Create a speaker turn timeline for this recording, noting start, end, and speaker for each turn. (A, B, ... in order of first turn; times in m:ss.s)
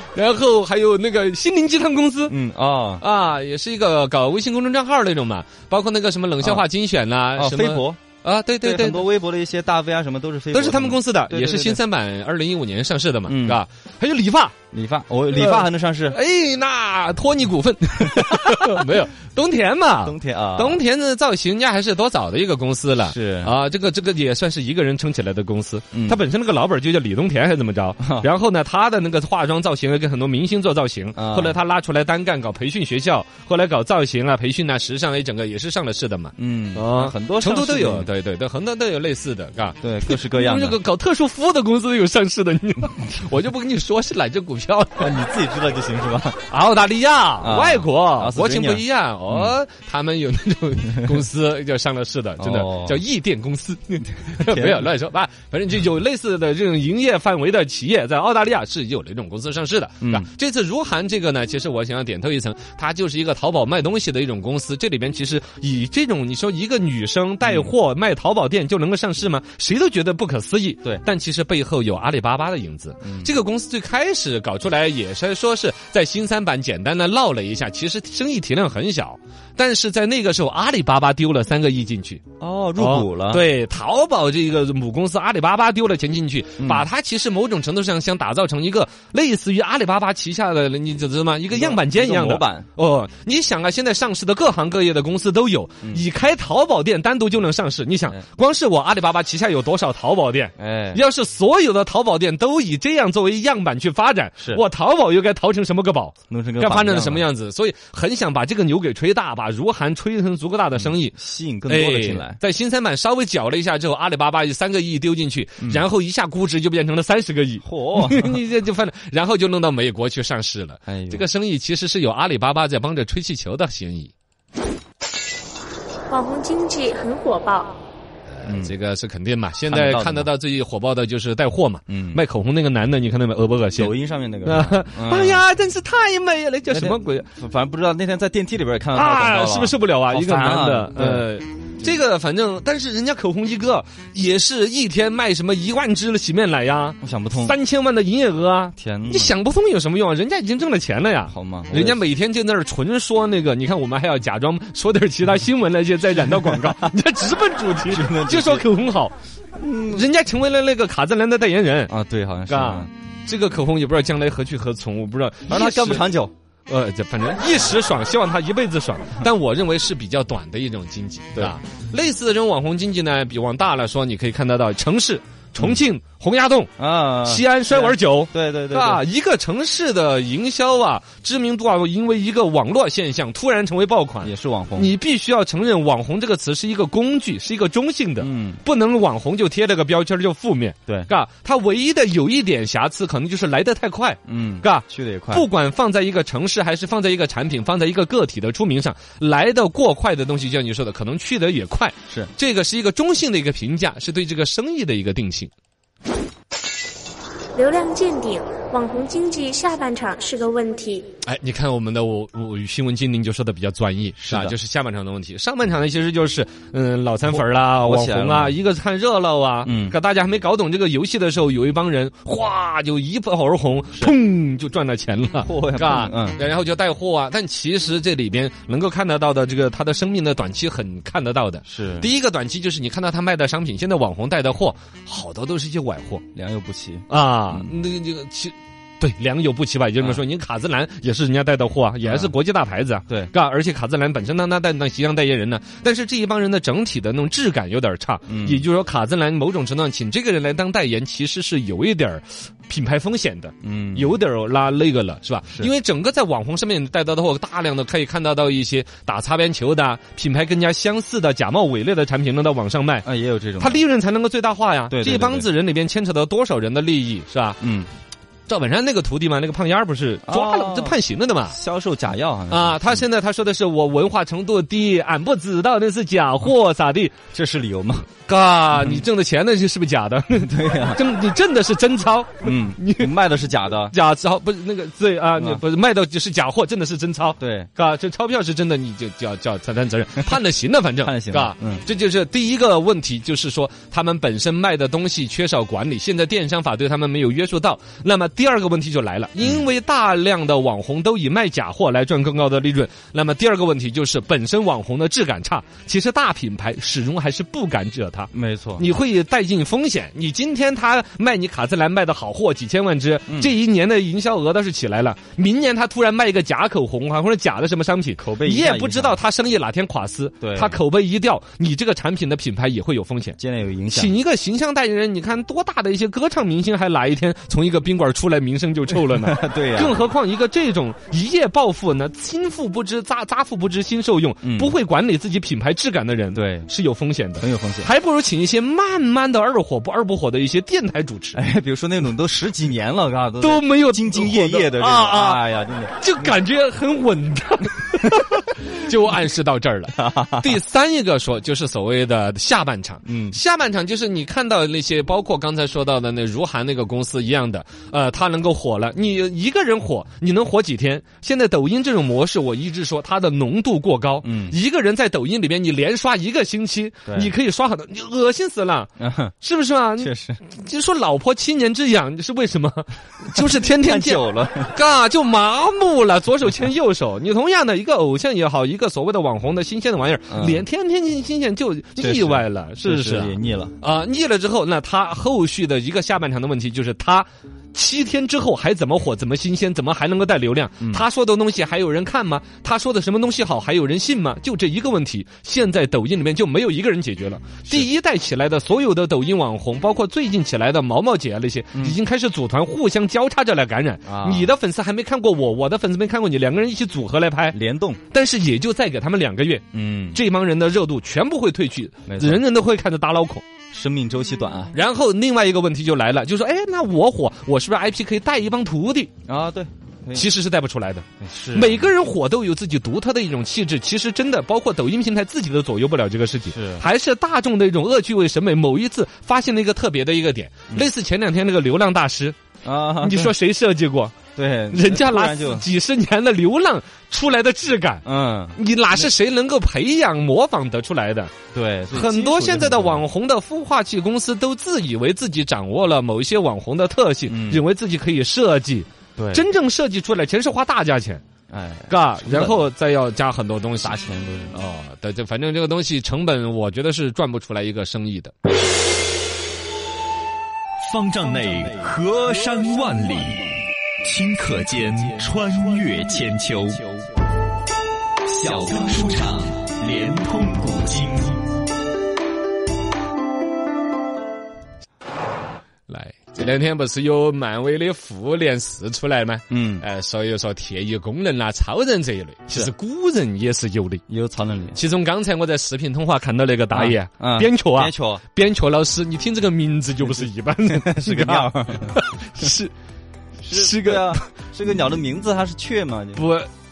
0:00.2-0:02.4 A
0:02.3-0:03.0 B
0:03.0-0:09.1 A
0:07.4-0:08.0 B
0:08.6-0:11.8 B
0:10.5-0:14.6 A
0:13.3-0:13.6 B
0:14.7-0:16.2 B
0:15.3-0:45.1 A
0:20.0-0:20.8 B
0:23.0-0:23.6 B
0:25.9-0:26.2 B
0:28.0-0:28.3 B
0:31.2-0:31.6 B
0:36.4-0:38.1 B
0:39.8-0:40.8 B
0:45.0-0:46.4 B
0:46.5-1:22.2 A
0:47.4-0:49.5 B
0:52.4-0:53.0 B
0:54.3-0:54.9 B
1:00.0-1:00.3 B
1:07.4-1:07.7 B
1:13.0-1:13.3 B
1:22.4-1:23.4 B
1:22.8-1:51.1 A
1:26.6-1:26.9 B
1:31.5-1:32.7 B
1:40.6-1:41.0 B
1:44.4-1:44.6 B
1:46.3-1:47.3 B
1:50.8-1:52.4 B
1:51.7-2:04.1 A
1:57.6-1:58.4 B
2:00.9-2:01.3 B
2:06.1-2:07.7 C
2:08.3-2:17.3 A
2:08.4-2:08.7 B
2:09.7-2:10.3 B
2:11.9-2:12.2 B
2:13.8-2:15.4 B
2:16.7-2:21.3 B
2:18.9-2:39.2 A
2:27.0-2:27.6 B
2:28.8-2:29.4 B
2:31.3-2:32.0 B
2:36.5-2:36.8 B
2:37.8-2:38.7 B
2:39.6-2:40.1 B
2:39.9-2:41.9 A
2:41.9-2:42.9 B
2:42.5-2:56.7 A
2:45.5-2:46.3 B
2:56.8-2:59.0 B
2:57.2-3:25.5 A
3:04.2-3:04.9 B
3:08.2-3:08.6 B
3:10.9-3:11.1 B
3:14.3-3:15.5 B
3:27.6-3:31.1 C
3:31.2-3:56.2 A
3:34.2-3:34.6 B
3:37.3-3:38.6 B
3:39.6-3:40.0 B
3:45.4-3:46.4 B
3:51.6-3:52.1 B
3:56.3-3:57.7 B
3:57.1-4:23.1 A
4:02.0-4:02.3 B
4:08.3-4:08.6 B
4:13.6-4:14.2 B
4:23.0-4:23.8 B
4:23.6-4:27.6 A
4:24.9-4:25.5 B
4:27.6-4:27.9 B
4:28.5-4:31.6 A
4:30.3-4:33.0 B
4:32.5-4:37.2 A
4:37.3-4:38.1 B
4:38.3-4:43.1 A
4:38.8-4:39.0 B
4:40.4-4:41.0 B
4:42.4-4:44.0 B
4:43.7-5:23.4 A
4:45.4-4:45.6 B
4:47.4-4:47.7 B
4:51.0-4:51.8 B
5:08.3-5:08.9 B
5:13.3-5:13.5 B
5:18.2-5:19.2 B
5:20.4-5:20.8 B
5:23.4-5:24.2 B
5:23.9-5:41.4 A
5:29.1-5:30.0 B
5:34.4-5:34.7 B
5:36.3-5:36.7 B
5:37.4-5:37.9 B
5:41.3-5:46.4 B
5:43.4-5:45.4 A
5:46.0-6:08.9 A
5:50.0-5:50.5 B
5:53.0-5:53.4 B
6:04.2-6:04.6 B
6:07.1-6:07.3 B
6:09.0-6:09.3 B
6:09.4-6:47.6 A
6:10.0-6:10.4 B
6:13.4-6:14.8 B
6:20.3-6:20.7 B
6:22.0-6:23.8 B
6:44.1-6:44.5 B
6:47.5-6:48.0 B
6:48.1-6:53.4 A
6:49.7-6:50.2 B
6:52.1-6:52.4 B
6:53.7-6:54.8 B
6:54.7-6:59.1 A
6:59.3-7:00.3 B
7:00.1-7:12.4 A
7:01.2-7:01.9 B
7:06.5-7:06.8 B
7:12.6-7:13.3 B
7:13.0-7:14.1 A
7:14.4-7:15.7 B
7:14.7-7:18.0 A
7:18.0-7:19.1 B
7:18.6-7:21.3 A
7:21.5-7:23.0 B
7:21.9-7:31.2 A
7:27.3-7:27.6 B
7:29.2-7:29.5 B
7:31.5-7:32.6 B
7:31.9-7:38.3 A
7:33.8-7:34.6 B
7:40.8-7:47.0 D
7:48.3-7:51.5 D
7:55.9-8:04.0 A
7:59.5-7:59.9 B
8:04.1-8:04.8 B
8:04.8-8:12.7 A
8:06.7-8:08.2 B
8:10.6-8:12.0 B
8:13.4-8:16.2 B
8:13.5-8:14.2 A
8:16.1-8:16.5 A